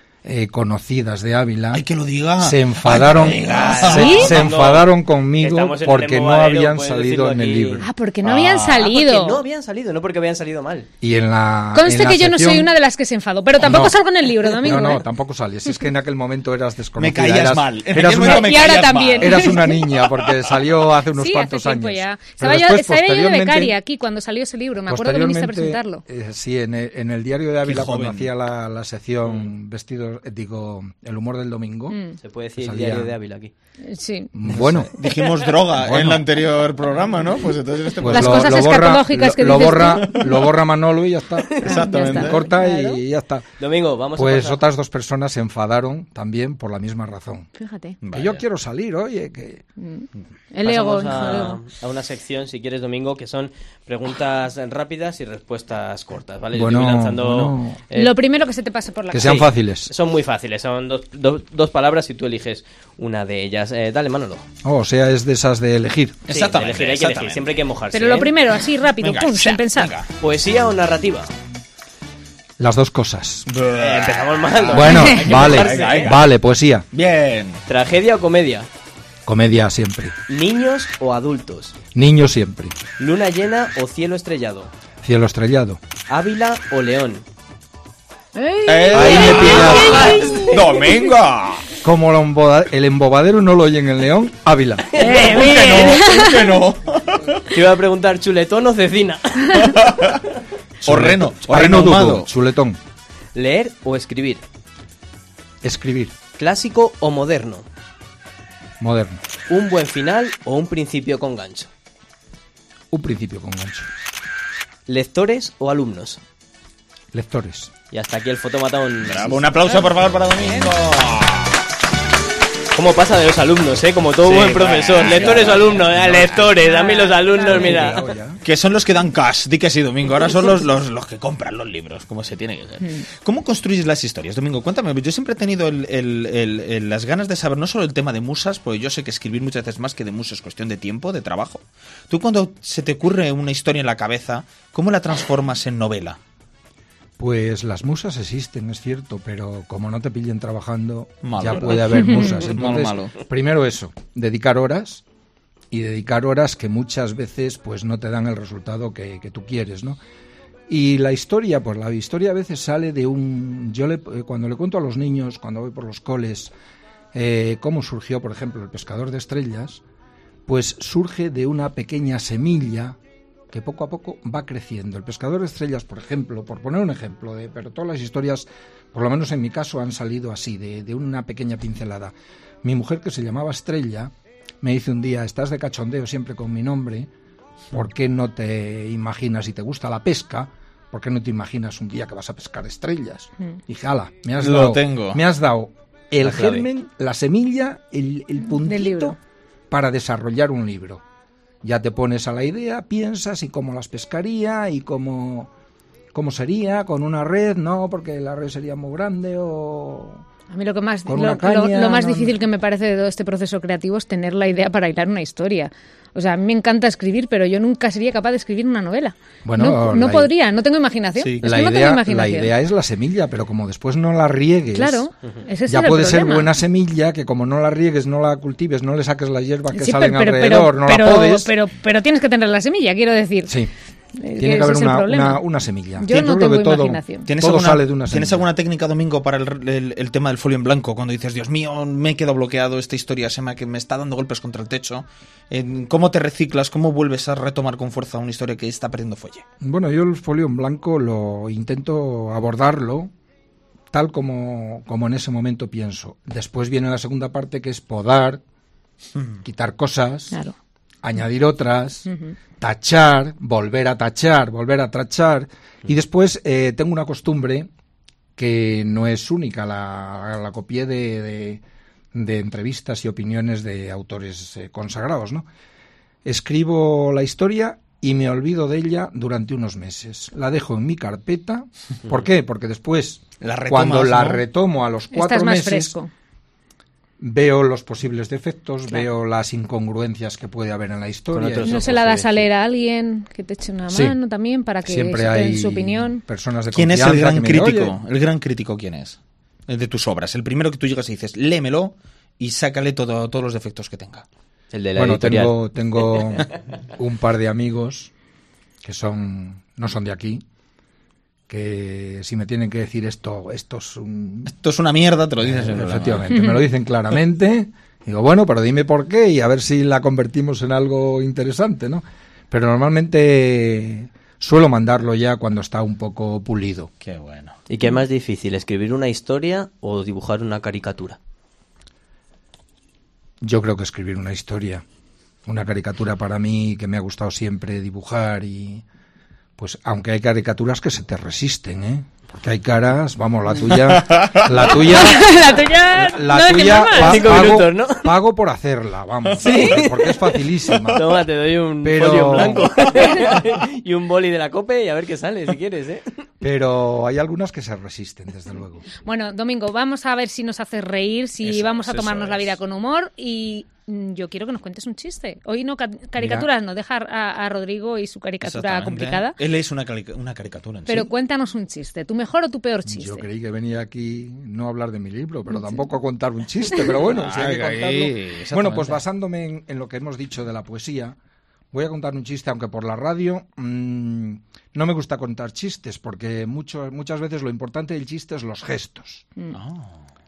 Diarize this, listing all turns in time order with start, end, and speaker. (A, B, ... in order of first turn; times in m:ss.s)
0:00.2-0:01.8 A
0:01.7-0:04.3 B
0:02.4-0:07.9 A
0:03.4-0:07.8 C
0:03.9-0:04.3 D
0:07.8-0:09.4 D
0:08.2-0:08.6 B
0:08.6-0:10.9 C
0:11.0-0:12.7 A
0:11.7-0:15.1 D
0:13.6-0:14.0 A
0:14.5-0:18.6 A
0:17.0-0:19.7 B
0:18.0-0:19.9 D
0:19.2-0:23.7 A
0:21.1-0:26.0 D
0:24.9-0:32.0 A
0:27.6-0:28.3 B
0:31.9-0:32.2 D
0:32.2-0:33.5 C
0:32.6-0:33.1 A
0:33.8-0:34.3 D
0:34.3-0:34.9 A
0:34.5-0:38.7 B
0:35.7-0:36.2 A
0:38.0-0:43.4 A
0:38.1-0:40.4 D
0:41.6-0:42.4 B
0:41.6-0:43.0 D
0:43.6-0:44.6 C
0:44.1-0:47.5 A
0:47.6-0:48.0 D
0:48.0-0:48.4 B
0:48.1-0:49.6 A
0:49.8-0:51.6 D
0:50.6-0:58.1 C
0:56.5-0:57.8 A
0:57.9-0:59.4 D
0:59.1-0:59.9 A
0:59.2-1:04.4 C
1:04.6-1:06.2 A
1:06.3-1:07.5 B
1:06.3-1:08.3 C
1:07.9-1:09.9 D
1:09.0-1:10.1 B
1:10.2-1:11.3 C
1:12.6-1:13.5 A
1:13.5-1:16.3 B
1:13.8-1:16.2 C
1:14.7-1:16.9 A
1:16.9-1:17.6 B
1:17.7-1:18.7 C
1:19.2-1:20.1 A
1:20.3-1:21.8 C
1:21.9-1:22.8 A
1:23.0-1:24.7 C
1:25.0-1:25.8 A
1:26.1-1:27.2 C
1:28.3-1:31.0 D
1:28.6-1:31.7 B
1:28.9-1:30.0 A
1:29.3-1:30.5 C
1:31.8-1:34.9 A
1:35.0-1:36.6 D
1:35.0-1:35.3 C
1:35.0-1:37.4 B
1:37.5-1:39.8 C
1:39.6-1:40.2 B
1:40.8-1:42.8 A
1:40.8-1:42.3 B
1:43.3-1:44.4 C
1:45.6-1:46.2 A
1:46.4-1:47.6 C
1:48.8-1:49.2 A
1:49.5-1:51.7 C
1:52.9-1:53.9 A
1:54.9-1:56.2 C
1:57.1-1:57.7 A
1:57.9-1:59.4 C
1:59.0-2:01.6 B
2:02.7-2:08.0 C
2:04.2-2:06.5 B
2:06.6-2:08.0 D
2:07.4-2:08.4 A
2:08.4-2:26.2 B
2:27.2-2:35.0 A
2:31.2-2:33.2 B
2:31.9-2:32.4 D
2:35.7-2:40.0 A
2:40.7-2:46.5 A
2:47.1-2:49.8 A
2:50.5-2:53.0 A
2:53.5-3:07.1 A
3:07.7-3:19.2 A
3:14.4-3:15.2 B
3:16.3-3:16.6 C
3:18.5-3:19.2 D
3:19.7-3:21.0 A
3:21.6-3:25.5 A
3:26.1-3:30.2 A
3:30.5-3:42.5 D
3:31.1-3:32.4 A
3:39.4-3:40.3 A
3:41.2-3:41.5 B
3:41.4-3:45.1 A
3:44.7-3:46.5 D
3:45.7-3:51.5 A
3:49.7-3:53.6 D
3:53.5-3:53.7 A
3:54.2-3:55.4 D
3:54.4-3:58.4 A
3:56.0-3:57.3 D
3:57.2-4:09.4 B
4:09.6-4:13.1 A
4:13.9-4:18.4 A
4:19.4-4:20.4 A
4:21.0-4:27.7 A
4:22.1-4:22.3 D
4:28.4-4:31.6 A
4:32.1-4:35.5 A
4:36.2-4:45.9 A
4:43.4-4:44.4 B
4:45.1-4:46.1 D
4:47.2-4:51.9 A
4:51.3-4:52.4 C
4:51.6-4:56.2 D
4:53.9-4:54.2 A
4:54.8-4:57.9 A
4:56.7-5:04.2 B
5:04.7-5:05.6 C
5:05.0-5:08.1 A
5:08.8-5:10.4 A
5:11.5-5:14.5 A
5:14.4-5:16.3 B
5:15.4-5:26.9 A
5:16.3-5:16.6 D
5:27.0-5:27.6 B
5:27.7-5:31.2 C
5:33.4-5:34.8 A
5:35.4-5:38.8 A
5:39.6-5:45.3 A
5:44.0-5:44.6 B
5:44.7-5:47.6 D
5:45.9-5:51.2 A
5:47.0-5:48.1 C
5:49.4-5:50.3 C
5:50.9-5:56.0 C
5:51.8-5:52.7 A
5:56.4-5:58.9 A
5:59.0-6:09.4 D
6:01.4-6:02.6 B
6:06.2-6:06.5 A
6:08.4-6:11.1 B
6:10.9-6:13.2 D
6:12.9-6:21.2 A
6:15.5-6:15.8 D
6:17.1-6:19.0 B
6:21.7-6:29.2 A
6:29.5-6:30.0 B